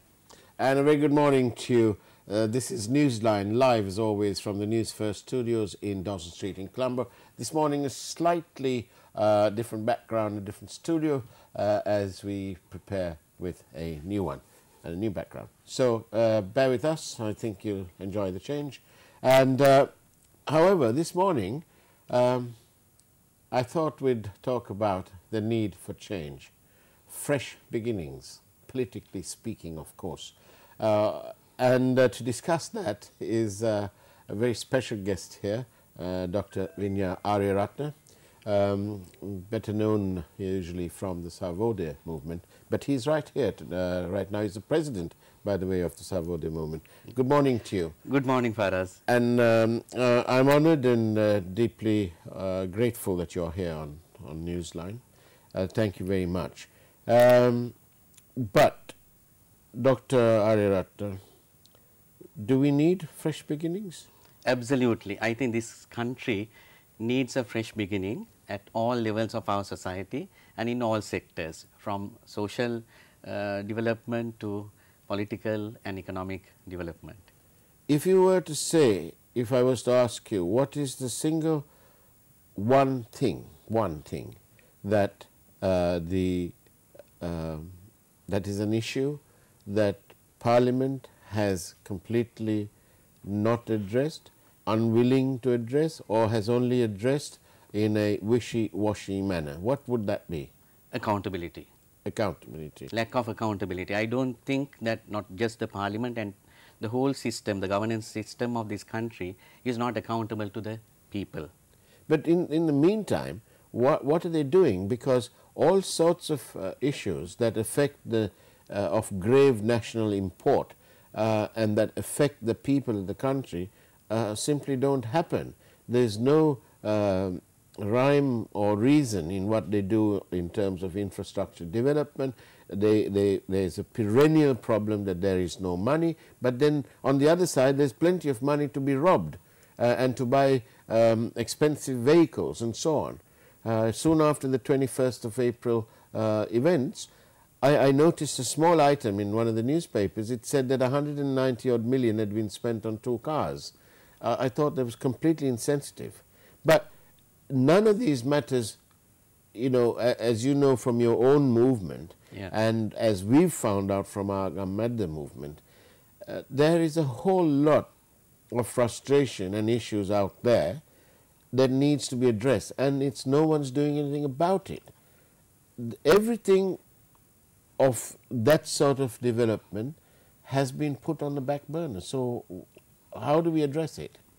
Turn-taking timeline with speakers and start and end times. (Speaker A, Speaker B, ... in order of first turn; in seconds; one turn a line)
Speaker A: 0.6-19.9
Speaker A: 20.4-22.6
Speaker A: 23.5-26.5
Speaker A: 27.1-47.9
Speaker B: 48.0-49.0
Speaker A: 49.1-55.0
Speaker A: 55.5-57.7
Speaker A: 58.4-59.0
Speaker A: 59.7-61.2
Speaker A: 62.4-64.0
Speaker B: 64.5-77.3
Speaker A: 77.9-81.7
Speaker A: 82.5-86.5
Speaker A: 87.2-87.7
Speaker A: 88.3-92.7
Speaker A: 93.2-100.5
Speaker B: 100.9-101.7
Speaker A: 102.0-102.9
Speaker B: 102.9-111.5
Speaker A: 112.1-147.1
Speaker A: 147.6-156.9
Speaker A: 157.5-158.8
Speaker A: 159.5-165.6
Speaker A: 166.2-167.9
Speaker A: 168.5-170.8
Speaker A: 171.5-174.9
Speaker A: 175.8-176.8
Speaker A: 177.8-184.2